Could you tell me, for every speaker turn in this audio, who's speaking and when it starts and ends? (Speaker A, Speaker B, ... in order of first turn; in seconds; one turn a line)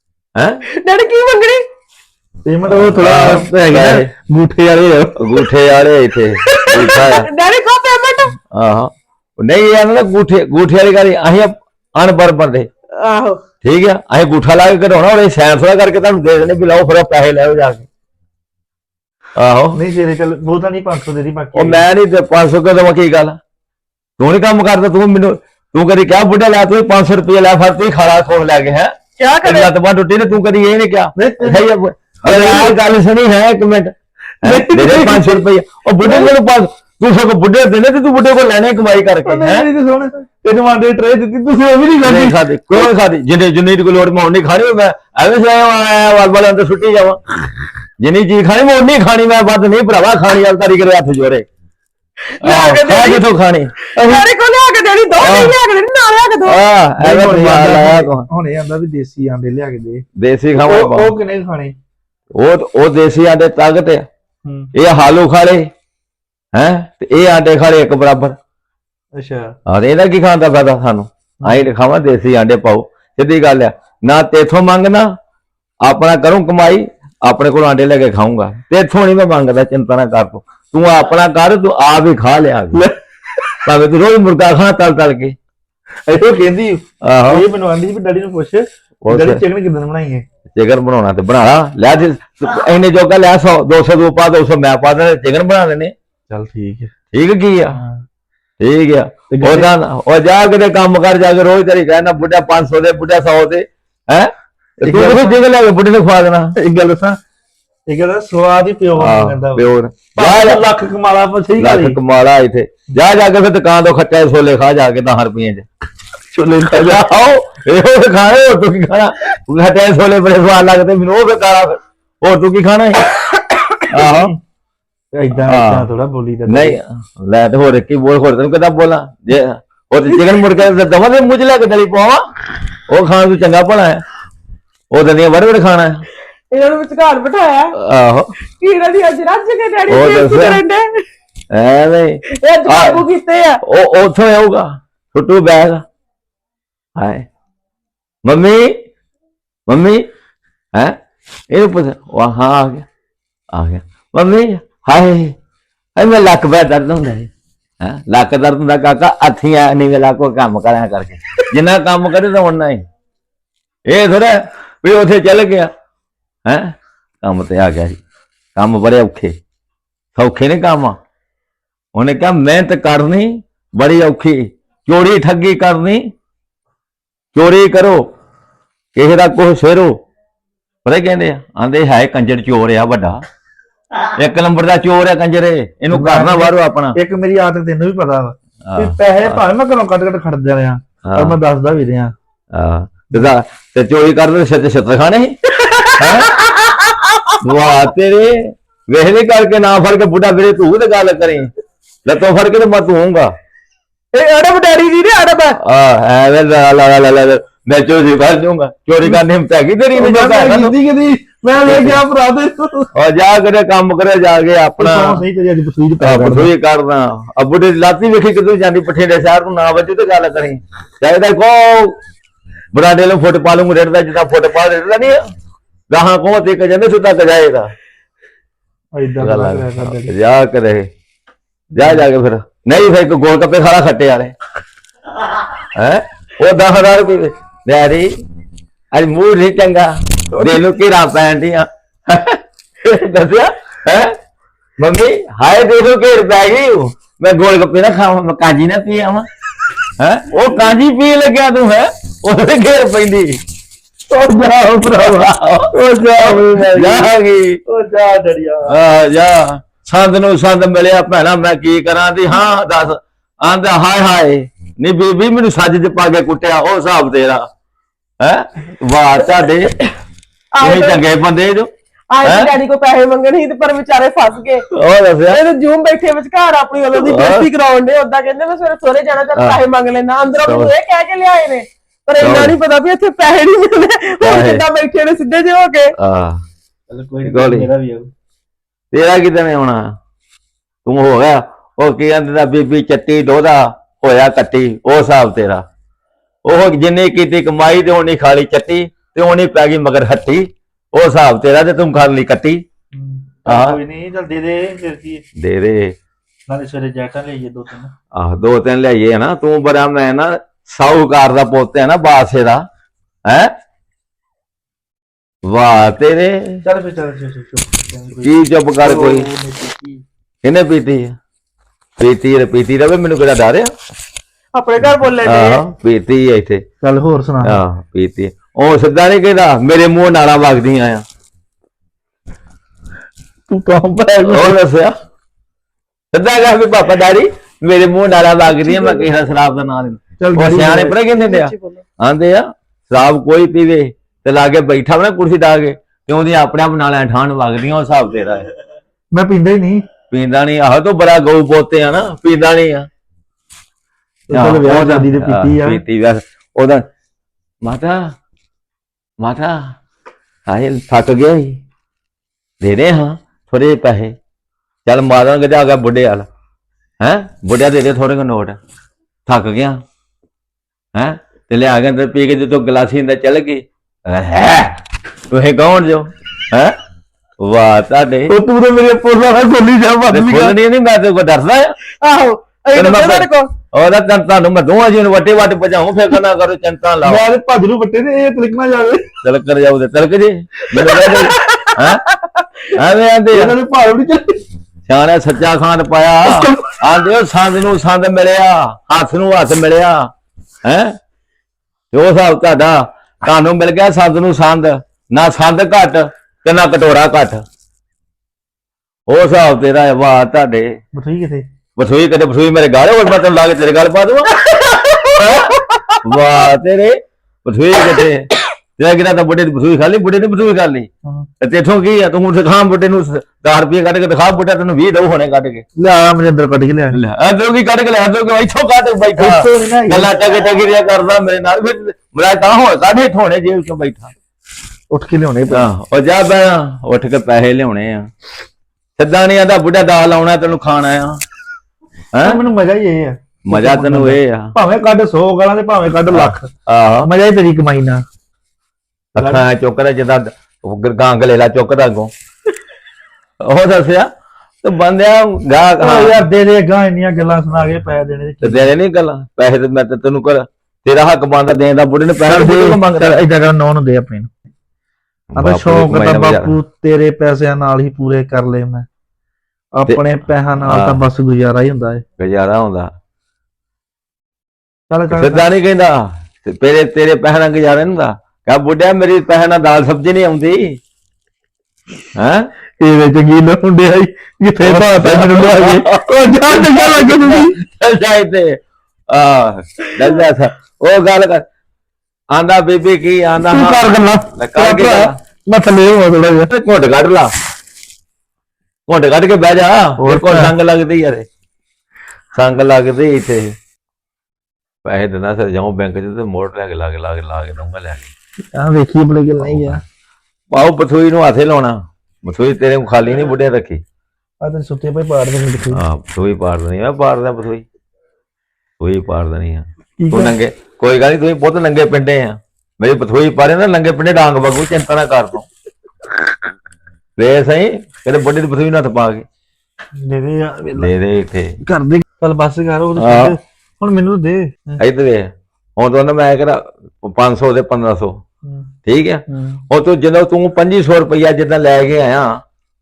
Speaker A: 0.4-0.6
Speaker B: 0.7-1.6
Speaker C: 2.5-5.4
Speaker A: 2.7-4.1
Speaker A: 5.2-7.3
Speaker B: 6.4-8.3
Speaker A: 8.5-12.7
Speaker B: 13.0-13.4
Speaker A: 13.6-17.9
Speaker A: 19.4-19.8
Speaker C: 19.7-21.9
Speaker A: 21.6-23.4
Speaker A: 24.2-28.9
Speaker B: 29.2-29.7
Speaker A: 29.4-39.7
Speaker C: 31.1-31.7
Speaker C: 32.2-32.8
Speaker C: 34.4-35.4
Speaker C: 36.0-36.3
Speaker C: 39.2-42.9
Speaker A: 42.0-47.2
Speaker A: 48.0-51.5
Speaker B: 52.4-53.3
Speaker A: 52.4-53.7
Speaker B: 53.9-56.6
Speaker C: 54.0-54.2
Speaker A: 55.2-55.5
Speaker A: 56.5-58.3
Speaker C: 57.0-60.0
Speaker A: 60.2-61.1
Speaker C: 60.5-61.8
Speaker A: 62.4-64.0
Speaker C: 64.4-64.7
Speaker A: 64.8-65.7
Speaker A: 66.5-68.4
Speaker C: 69.2-69.5
Speaker A: 69.7-75.1
Speaker C: 71.4-71.7
Speaker A: 75.8-82.9
Speaker A: 83.7-85.4
Speaker C: 86.1-90.2
Speaker A: 87.0-87.5
Speaker A: 89.0-89.4
Speaker A: 90.5-95.9
Speaker C: 96.3-96.9
Speaker A: 97.1-97.8
Speaker C: 97.7-98.0
Speaker A: 98.6-106.5
Speaker C: 99.3-99.7
Speaker C: 104.8-105.4
Speaker C: 106.5-107.2
Speaker C: 107.9-112.0
Speaker A: 109.0-110.7
Speaker A: 111.6-115.7
Speaker C: 116.3-117.1
Speaker A: 116.7-123.0
Speaker A: 123.9-124.3
Speaker C: 124.0-124.3
Speaker C: 125.1-126.8
Speaker A: 125.4-125.9
Speaker A: 126.5-132.2
Speaker A: 132.9-134.0
Speaker A: 134.9-136.1
Speaker B: 136.5-137.8
Speaker A: 137.8-138.3
Speaker B: 138.5-141.1
Speaker A: 139.9-140.6
Speaker A: 141.5-143.1
Speaker B: 142.3-143.6
Speaker A: 143.6-145.8
Speaker A: 147.0-147.2
Speaker A: 148.2-148.7
Speaker A: 149.7-150.0
Speaker A: 151.5-152.8
Speaker A: 153.5-155.3
Speaker A: 156.0-157.3
Speaker A: 157.8-162.8
Speaker A: 163.9-165.7
Speaker A: 166.5-168.0
Speaker A: 168.6-169.4
Speaker A: 170.2-171.0
Speaker A: 171.9-176.1
Speaker A: 177.3-178.0
Speaker A: 179.0-180.0
Speaker A: 180.8-183.2
Speaker A: 184.2-187.0
Speaker C: 185.9-192.2
Speaker A: 188.7-189.4
Speaker A: 191.1-191.4
Speaker A: 192.5-195.4
Speaker B: 195.6-197.7
Speaker A: 196.0-196.3
Speaker A: 197.4-201.5
Speaker A: 202.1-203.3
Speaker B: 204.1-205.6
Speaker A: 205.6-210.8
Speaker C: 209.9-212.9
Speaker A: 211.7-212.0
Speaker A: 212.9-215.2
Speaker C: 214.8-216.5
Speaker A: 216.0-222.0
Speaker A: 222.7-225.2
Speaker A: 225.9-227.7
Speaker C: 228.9-230.2
Speaker A: 229.2-230.9
Speaker C: 231.7-232.1
Speaker A: 231.8-234.3
Speaker A: 235.8-238.1
Speaker A: 238.9-244.1
Speaker C: 240.4-240.6
Speaker A: 244.8-249.3
Speaker A: 250.0-253.4
Speaker C: 254.1-255.1
Speaker A: 254.8-257.6
Speaker C: 255.7-257.1
Speaker C: 257.7-258.8
Speaker A: 258.7-267.4
Speaker A: 268.2-269.8
Speaker B: 270.5-271.0
Speaker A: 270.6-271.7
Speaker B: 272.1-274.7
Speaker A: 272.2-272.5
Speaker A: 274.7-275.4
Speaker B: 275.3-285.9
Speaker A: 276.9-277.5
Speaker A: 280.4-280.7
Speaker A: 282.2-282.6
Speaker A: 284.2-284.6
Speaker A: 286.0-286.4
Speaker C: 286.9-288.1
Speaker A: 287.2-287.7
Speaker A: 288.9-289.9
Speaker A: 290.9-295.6
Speaker A: 296.4-302.6
Speaker C: 302.9-305.2
Speaker A: 303.5-303.8
Speaker A: 305.4-305.9
Speaker C: 306.5-307.9
Speaker A: 308.1-312.6
Speaker A: 313.3-313.5
Speaker A: 315.5-316.6
Speaker C: 316.6-320.0
Speaker A: 318.2-319.3
Speaker A: 320.4-321.1
Speaker A: 322.0-323.7
Speaker B: 324.5-325.6
Speaker A: 325.2-326.6
Speaker C: 326.8-327.6
Speaker A: 327.4-331.0
Speaker C: 333.5-334.6
Speaker A: 334.3-334.9
Speaker A: 336.1-348.5
Speaker B: 338.6-338.9
Speaker C: 340.2-341.0
Speaker B: 341.1-341.8
Speaker C: 349.1-349.8
Speaker A: 350.1-352.9
Speaker C: 354.3-355.8
Speaker A: 354.3-356.9
Speaker A: 357.6-358.1
Speaker A: 359.2-359.8
Speaker A: 360.5-361.6
Speaker A: 362.6-364.2
Speaker A: 364.9-366.3
Speaker A: 367.0-368.6
Speaker A: 369.3-369.8
Speaker A: 370.9-374.8
Speaker A: 375.3-376.7
Speaker A: 377.4-378.3
Speaker C: 378.3-380.6
Speaker A: 380.1-381.8
Speaker B: 382.0-383.5
Speaker A: 382.8-387.2
Speaker C: 387.0-389.1
Speaker A: 389.2-392.0
Speaker C: 390.7-391.1
Speaker B: 391.3-391.8
Speaker A: 392.7-393.6
Speaker C: 393.3-394.4
Speaker A: 394.9-400.1
Speaker C: 396.3-396.6
Speaker A: 400.6-400.9
Speaker A: 401.9-407.4
Speaker A: 409.1-410.8
Speaker C: 410.9-411.5
Speaker A: 411.8-414.5
Speaker B: 414.7-415.8
Speaker A: 416.0-420.9
Speaker A: 421.4-425.6
Speaker C: 425.8-427.0
Speaker A: 426.9-434.1
Speaker C: 429.1-430.1
Speaker C: 434.9-435.7
Speaker A: 435.5-438.1
Speaker A: 439.0-441.2
Speaker A: 442.1-442.4
Speaker C: 442.2-446.5
Speaker A: 443.5-444.6
Speaker A: 446.1-447.1
Speaker C: 447.0-448.0
Speaker A: 449.1-452.1
Speaker C: 449.2-449.4
Speaker A: 453.4-454.1
Speaker A: 454.6-456.2
Speaker C: 455.8-458.7
Speaker A: 458.4-463.2
Speaker C: 462.2-464.3
Speaker A: 465.3-466.6
Speaker C: 465.4-468.9
Speaker C: 469.7-472.0
Speaker A: 469.9-471.0
Speaker A: 472.2-472.9
Speaker C: 474.9-475.5
Speaker A: 475.1-480.8
Speaker A: 482.2-482.5
Speaker C: 482.8-487.6
Speaker A: 484.6-488.6
Speaker A: 489.1-491.4
Speaker A: 492.3-495.2
Speaker C: 493.4-496.5
Speaker A: 496.5-497.3
Speaker A: 498.9-501.3
Speaker C: 500.0-500.5
Speaker A: 502.3-503.6
Speaker A: 504.9-508.1
Speaker C: 508.5-509.8
Speaker A: 509.4-509.8
Speaker A: 510.5-513.8
Speaker C: 514.4-515.8
Speaker A: 515.7-517.6
Speaker A: 518.8-525.5
Speaker C: 520.0-520.4
Speaker A: 527.2-529.2
Speaker C: 530.0-530.9
Speaker A: 530.8-531.6
Speaker C: 531.6-534.8
Speaker A: 533.0-533.4
Speaker A: 534.8-538.2
Speaker C: 538.5-538.7
Speaker A: 538.9-542.4
Speaker C: 539.3-539.6